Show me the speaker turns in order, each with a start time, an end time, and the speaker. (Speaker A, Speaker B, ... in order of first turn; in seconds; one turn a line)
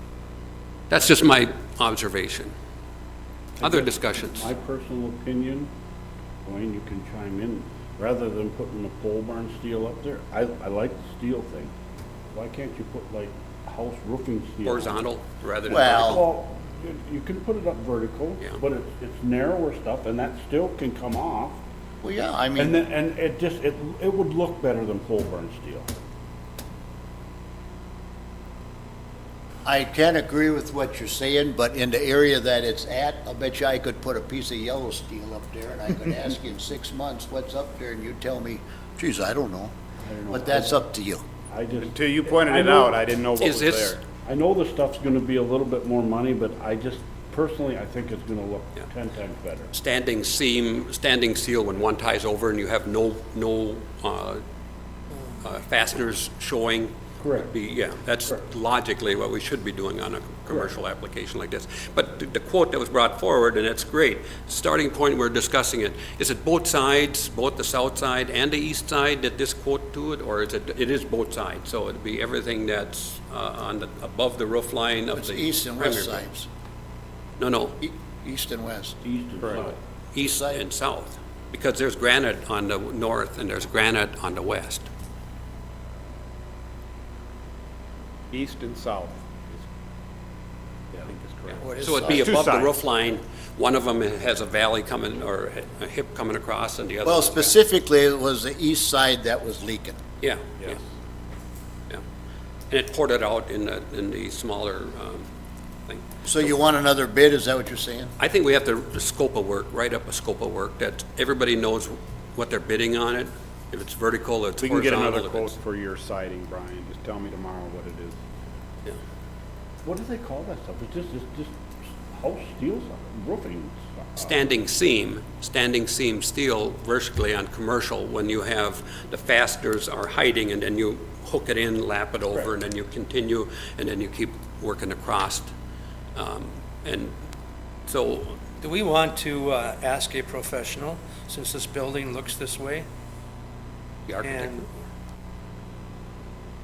Speaker A: 0.9-2.5
Speaker B: 3.6-5.7
Speaker A: 3.6-4.5
Speaker B: 6.4-11.7
Speaker B: 12.3-15.1
Speaker A: 14.7-16.2
Speaker B: 15.7-21.6
Speaker C: 15.7-16.2
Speaker C: 22.0-22.8
Speaker B: 22.6-25.9
Speaker C: 29.6-39.7
Speaker B: 40.1-40.8
Speaker C: 40.3-41.2
Speaker B: 41.5-43.0
Speaker D: 41.8-44.0
Speaker A: 43.4-44.0
Speaker B: 44.2-49.7
Speaker A: 49.7-54.4
Speaker A: 55.4-76.2
Speaker B: 57.2-57.5
Speaker C: 75.1-76.5
Speaker A: 77.4-77.8
Speaker C: 77.8-79.0
Speaker B: 79.0-79.8
Speaker A: 80.1-84.9
Speaker C: 80.2-80.6
Speaker D: 88.3-89.2
Speaker D: 91.0-92.8
Speaker A: 91.6-97.6
Speaker C: 97.0-100.0
Speaker A: 100.2-100.8
Speaker A: 102.7-105.3
Speaker C: 106.2-108.1
Speaker A: 108.2-115.5
Speaker D: 114.6-118.2
Speaker B: 119.8-124.4
Speaker A: 124.2-135.5
Speaker A: 136.2-137.2
Speaker A: 137.9-138.4
Speaker E: 138.6-142.9
Speaker A: 144.1-144.8
Speaker E: 144.2-144.6